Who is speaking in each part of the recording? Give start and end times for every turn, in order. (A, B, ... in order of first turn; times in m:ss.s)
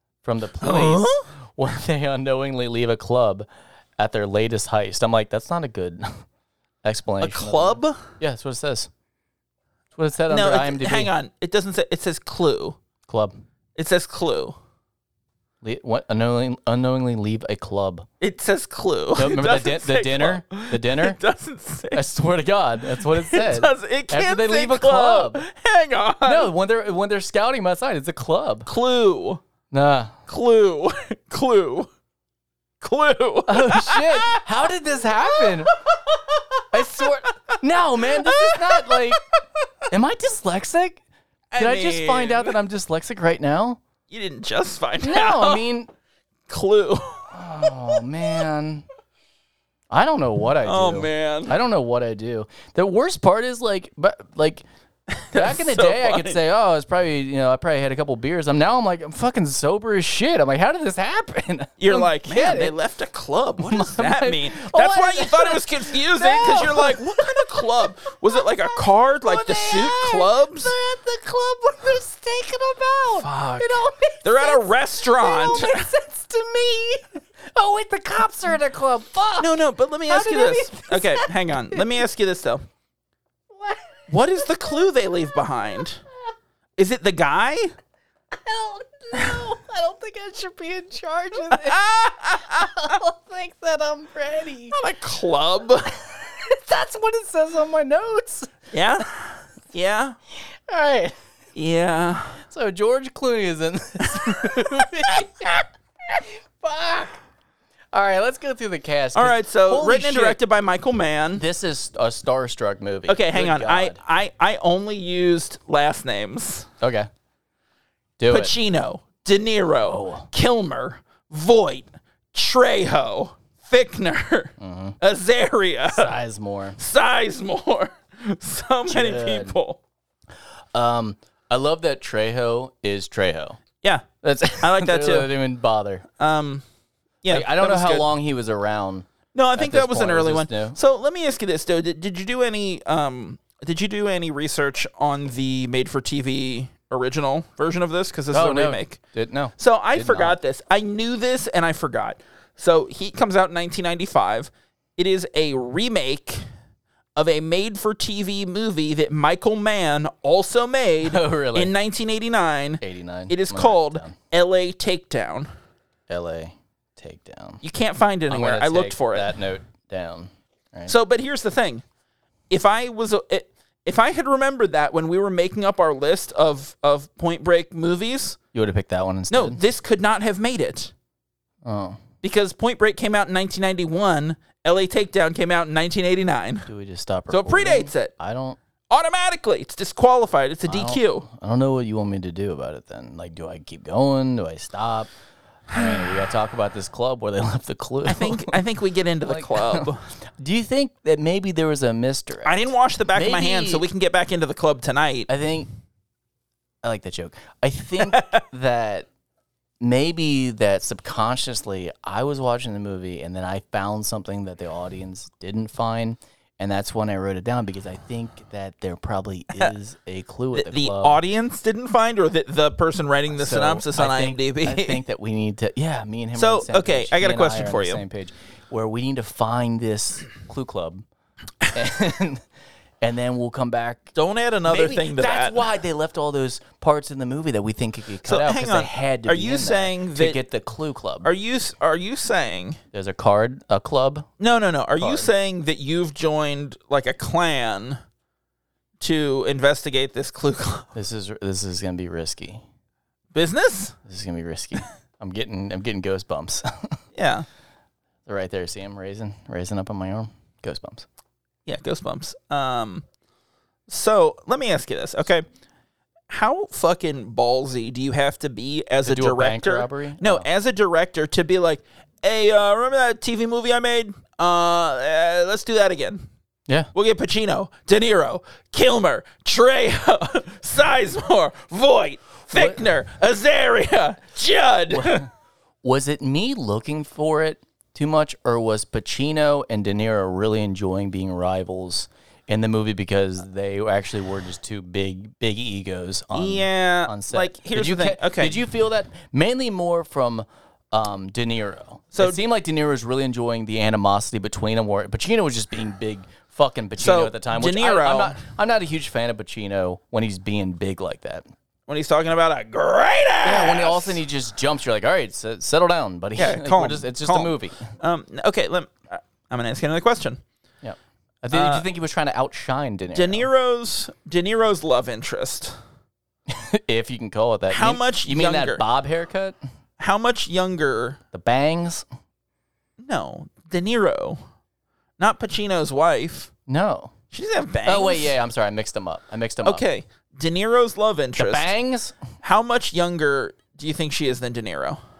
0:00.2-0:06.2 A
0:00.6-0:01.3 B
0:06.8-0:08.9 A
0:07.2-0:08.1 B
0:09.9-0:11.1 A
0:10.3-0:12.8 B
0:13.1-0:13.3 A
0:13.8-0:14.6 B
0:15.6-0:18.1 A
0:18.2-0:22.1 B
0:19.1-0:21.2 A
0:21.9-0:25.4 A
0:23.0-0:26.5 B
0:26.2-0:28.7 A
0:28.6-0:29.4 B
0:29.7-0:30.1 A
0:30.3-0:31.9 B
0:32.8-0:34.4 B
0:33.5-0:35.7 A
0:35.3-0:37.6 B
0:36.7-0:39.2 A
0:38.2-0:39.0 B
0:39.9-0:41.0 A
0:41.5-0:42.6 B
0:41.6-0:43.8 A
0:44.1-0:45.6 B
0:45.0-0:45.9 A
0:46.5-0:48.0 B
0:47.3-0:48.8 A
0:49.9-0:54.6 A
0:50.6-0:51.5 B
0:55.1-0:56.4 B
0:55.3-1:02.7 A
1:01.8-1:10.7 B
1:03.6-1:22.0 A
1:13.2-1:15.9 B
1:19.4-1:22.6 B
1:23.5-1:25.8 A
1:24.1-1:26.0 B
1:26.8-1:27.7 B
1:28.3-1:34.8 A
1:31.4-1:33.0 B
1:34.7-1:36.0 B
1:35.9-1:39.0 A
1:38.7-1:40.2 B
1:40.5-1:41.2 A
1:41.5-1:42.4 B
1:42.4-1:47.2 A
1:47.9-1:50.4 A
1:49.1-1:51.4 B
1:51.4-1:54.0 A
1:53.1-1:56.7 B
1:56.8-1:57.1 A
1:58.2-1:58.5 A
1:58.3-2:06.1 B
1:59.8-2:00.3 A
2:04.6-2:05.0 A
2:05.9-2:06.8 A
2:06.8-2:09.8 B
2:08.9-2:09.6 A
2:10.7-2:13.6 A
2:14.2-2:16.0 A
2:14.6-2:15.3 B
2:16.2-2:16.6 B
2:17.2-2:18.1 B
2:17.3-2:20.8 A
2:19.3-2:29.0 B
2:28.3-2:30.4 A
2:29.6-2:36.4 B
2:37.2-2:45.5 B
2:41.0-2:41.7 A
2:42.8-2:44.2 A
2:46.1-2:47.6 A
2:47.6-2:49.3 B
2:48.3-2:50.9 A
2:50.9-2:51.8 B
2:52.5-2:58.4 B
2:58.5-2:59.6 A
2:59.3-3:00.9 B
3:01.6-3:02.0 A
3:02.2-3:06.7 B
3:06.7-3:08.6 A
3:07.3-3:08.1 B
3:08.9-3:11.2 B
3:10.6-3:15.1 A
3:15.7-3:16.0 B
3:15.7-3:18.6 A
3:18.0-3:20.0 B
3:19.2-3:22.6 A
3:22.4-3:25.3 B
3:23.1-3:23.9 A
3:25.3-3:25.7 A
3:26.8-3:29.1 A
3:28.0-3:28.4 B
3:29.8-3:41.2 A
3:40.5-3:45.0 B
3:43.3-3:51.0 A
3:46.3-3:48.0 B
3:51.7-3:52.4 A
3:53.0-3:54.1 A
3:54.1-3:55.6 B
3:54.7-4:01.3 A
3:58.2-4:00.4 B
4:01.2-4:02.8 B
4:02.9-4:04.3 A
4:04.4-4:08.0 B
4:05.0-4:05.3 A
4:09.0-4:10.9 B
4:10.9-4:12.6 A
4:13.3-4:14.0 B
4:14.0-4:17.0 A
4:17.1-4:17.4 B
4:18.2-4:21.0 A
4:21.6-4:23.0 B
4:23.9-4:25.4 B
4:26.3-4:36.3 B
4:29.0-4:30.5 A
4:36.9-4:45.3 B
4:42.5-4:42.9 A
4:44.9-4:45.3 A
4:45.8-5:11.4 A
4:56.3-4:58.6 B
5:02.1-5:02.4 B
5:07.0-5:08.4 B
5:11.9-5:14.2 B
5:13.4-5:17.9 A
5:16.4-5:20.4 B
5:20.8-5:23.5 A
5:21.5-5:21.9 B
5:23.1-5:25.8 B
5:26.5-5:29.6 A
5:27.7-5:28.8 B
5:30.0-5:31.2 B
5:31.3-5:32.0 A
5:33.0-5:34.4 B
5:35.2-5:36.5 B
5:36.7-5:37.1 A
5:37.3-5:38.3 B
5:37.8-5:39.8 A
5:39.6-5:41.7 B
5:41.4-5:42.2 A
5:42.4-5:45.0 B